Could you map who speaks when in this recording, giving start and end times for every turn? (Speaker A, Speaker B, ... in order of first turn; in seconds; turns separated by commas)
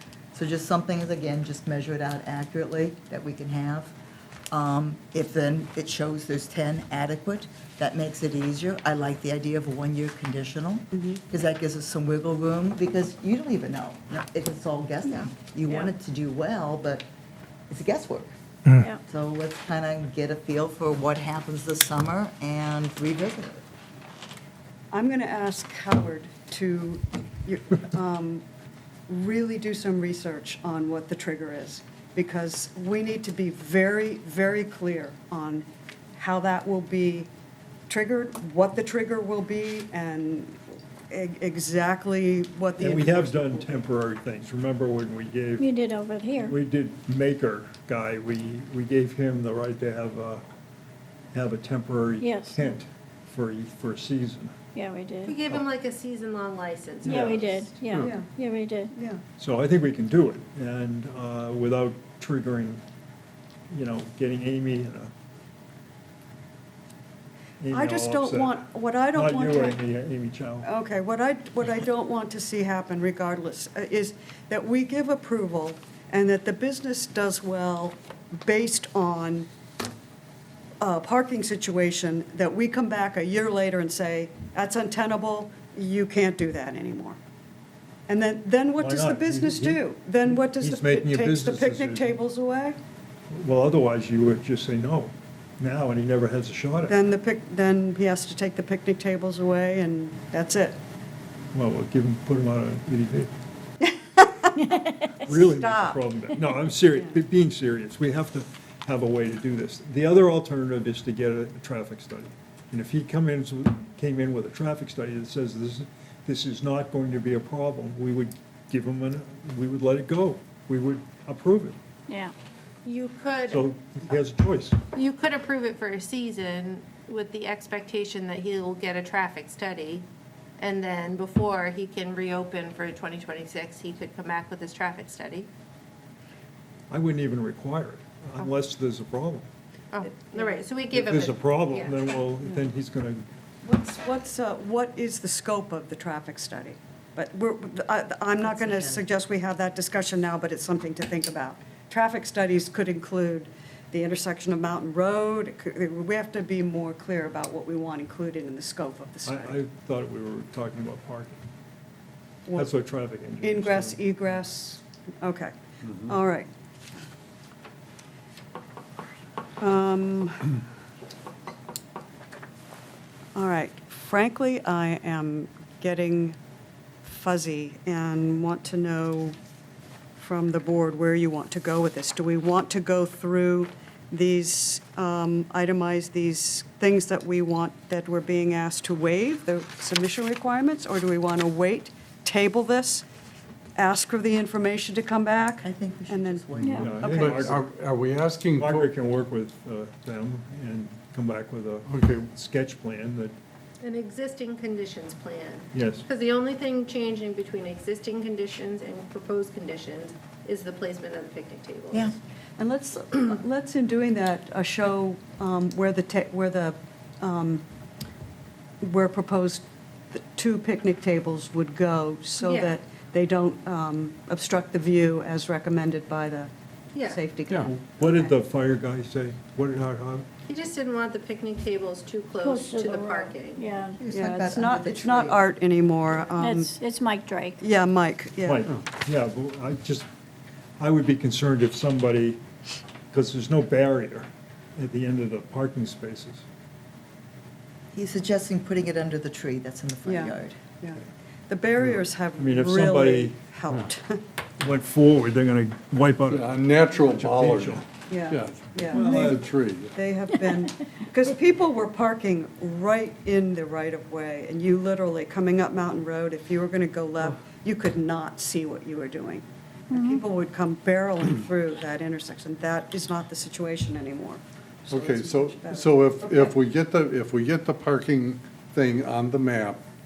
Speaker A: 0.3-3.9, Speaker A: 4.5-17.0, Speaker A: 17.7-18.3, Speaker A: 19.0-23.6, Speaker B: 24.9-28.4, Speaker B: 29.1-37.3, Speaker B: 37.9-40.6, Speaker B: 41.1-43.8, Speaker C: 42.8-45.7, Speaker D: 45.6-46.5, Speaker C: 46.4-50.4, Speaker C: 51.3-54.7, Speaker D: 52.2-52.6, Speaker D: 54.7-55.4, Speaker E: 55.2-57.7, Speaker D: 57.0-58.9, Speaker C: 57.1-57.5, Speaker B: 58.0-58.3, Speaker B: 59.0-59.2, Speaker C: 59.4-62.8, Speaker C: 63.7-65.1, Speaker C: 67.6-70.7, Speaker B: 67.7-69.8, Speaker B: 70.6-79.5, Speaker B: 80.8-87.2, Speaker B: 88.1-92.8, Speaker C: 88.8-92.2, Speaker C: 93.3-97.0, Speaker B: 96.8-100.8, Speaker C: 101.5-103.3, Speaker B: 103.8-104.7, Speaker D: 104.6-105.2, Speaker C: 105.2-121.8, Speaker B: 105.2-106.0, Speaker D: 122.1-122.3, Speaker E: 122.8-123.7, Speaker C: 123.5-124.8, Speaker E: 124.9-130.1, Speaker E: 130.6-135.5, Speaker C: 136.9-139.5, Speaker E: 139.9-142.1, Speaker C: 140.9-143.2, Speaker B: 143.6-159.6, Speaker A: 148.4-149.0, Speaker C: 159.2-161.4, Speaker C: 162.5-164.1, Speaker B: 163.4-166.5, Speaker B: 169.6-170.6, Speaker B: 173.3-176.4, Speaker B: 177.0-179.3, Speaker B: 180.2-193.0, Speaker B: 193.8-197.3, Speaker A: 195.6-197.1, Speaker C: 196.6-197.7, Speaker D: 196.6-196.9, Speaker F: 197.0-198.9, Speaker C: 198.6-203.3, Speaker F: 201.9-202.3, Speaker E: 203.8-212.1, Speaker C: 205.7-206.0, Speaker B: 212.6-217.6, Speaker B: 218.8-226.5, Speaker E: 222.4-222.8, Speaker E: 226.9-227.2, Speaker B: 227.0-227.8, Speaker C: 227.6-230.3, Speaker E: 230.4-233.8, Speaker D: 232.4-234.0, Speaker A: 234.0-235.4, Speaker B: 234.1-236.7, Speaker D: 236.3-237.6, Speaker B: 237.6-238.7, Speaker C: 238.4-240.1, Speaker C: 240.8-242.4, Speaker C: 243.1-246.4, Speaker A: 247.9-250.6, Speaker B: 250.0-254.2, Speaker C: 252.3-253.4, Speaker C: 254.6-257.9, Speaker F: 256.3-259.9, Speaker B: 258.1-276.5, Speaker C: 258.9-259.4, Speaker D: 269.9-270.2, Speaker F: 274.9-279.8